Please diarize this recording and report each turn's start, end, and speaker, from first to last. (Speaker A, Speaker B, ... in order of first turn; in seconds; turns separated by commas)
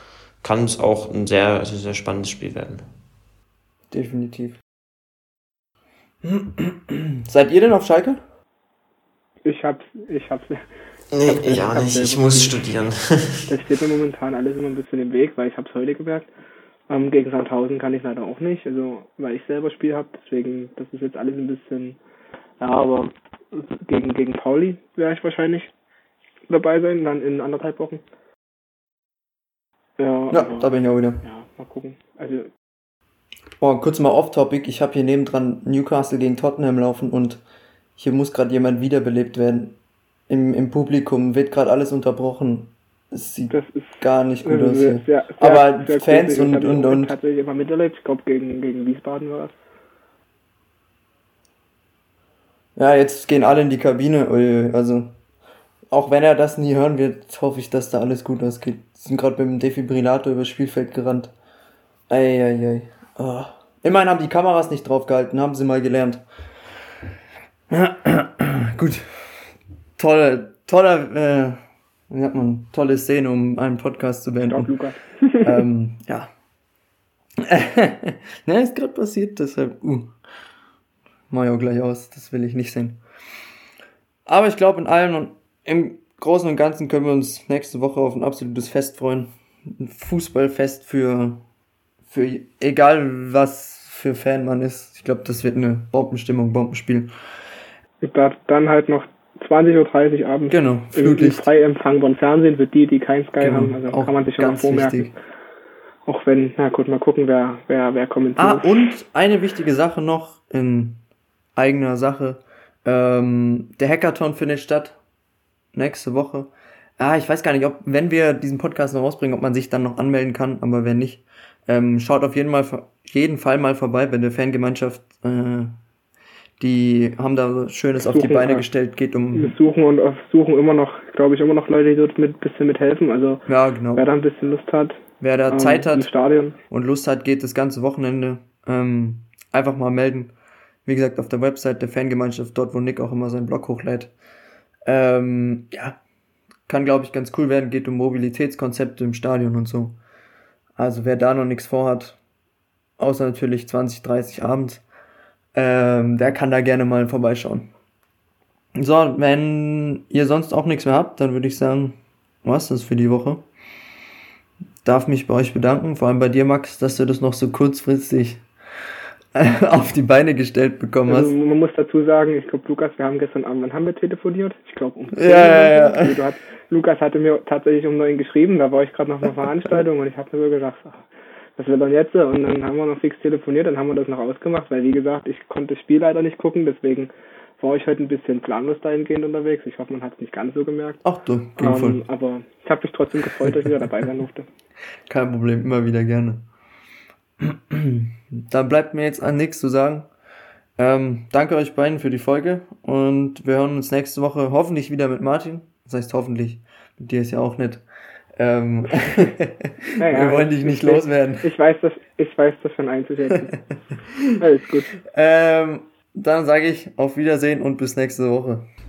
Speaker A: 0.4-2.8, Speaker B: 3.9-4.6, Speaker B: 6.2-8.2, Speaker C: 9.4-10.7, Speaker A: 11.1-13.5, Speaker C: 11.2-12.6, Speaker C: 13.5-16.3, Speaker C: 16.9-22.0, Speaker C: 22.6-25.7, Speaker C: 26.5-28.0, Speaker C: 30.0-32.5, Speaker B: 30.3-31.2, Speaker B: 33.6-37.4, Speaker B: 38.0-39.8, Speaker B: 40.3-47.1, Speaker C: 43.5-49.5, Speaker B: 52.8-55.1, Speaker B: 55.9-61.3, Speaker B: 62.1-66.2, Speaker B: 67.7-69.1, Speaker B: 70.0-74.7, Speaker C: 74.5-75.6, Speaker B: 75.4-76.3, Speaker B: 77.4-80.1, Speaker B: 81.3-83.0, Speaker B: 84.3-91.4, Speaker B: 92.1-97.1, Speaker C: 98.0-105.1, Speaker B: 100.5-101.5, Speaker B: 103.4-105.1, Speaker C: 106.1-108.7, Speaker B: 108.4-111.0, Speaker B: 111.6-115.0, Speaker B: 115.7-125.8, Speaker B: 126.6-129.5, Speaker C: 128.0-128.6, Speaker C: 129.3-136.6, Speaker B: 133.5-134.0, Speaker B: 135.2-136.1, Speaker B: 136.7-140.3, Speaker B: 140.8-144.1, Speaker B: 144.8-146.0, Speaker B: 146.7-150.0, Speaker B: 150.8-152.2, Speaker B: 153.0-154.8, Speaker B: 155.5-157.7, Speaker B: 158.8-163.4, Speaker B: 164.8-168.4, Speaker B: 169.3-171.3, Speaker C: 171.1-181.0, Speaker B: 175.2-176.2, Speaker C: 181.6-191.0, Speaker B: 191.0-192.0, Speaker C: 191.6-194.5, Speaker B: 195.1-196.4, Speaker B: 197.4-200.1, Speaker B: 200.8-207.8, Speaker B: 208.4-211.5, Speaker C: 209.0-209.3, Speaker C: 210.0-213.6, Speaker B: 213.9-214.4, Speaker C: 214.4-215.0, Speaker B: 215.0-218.7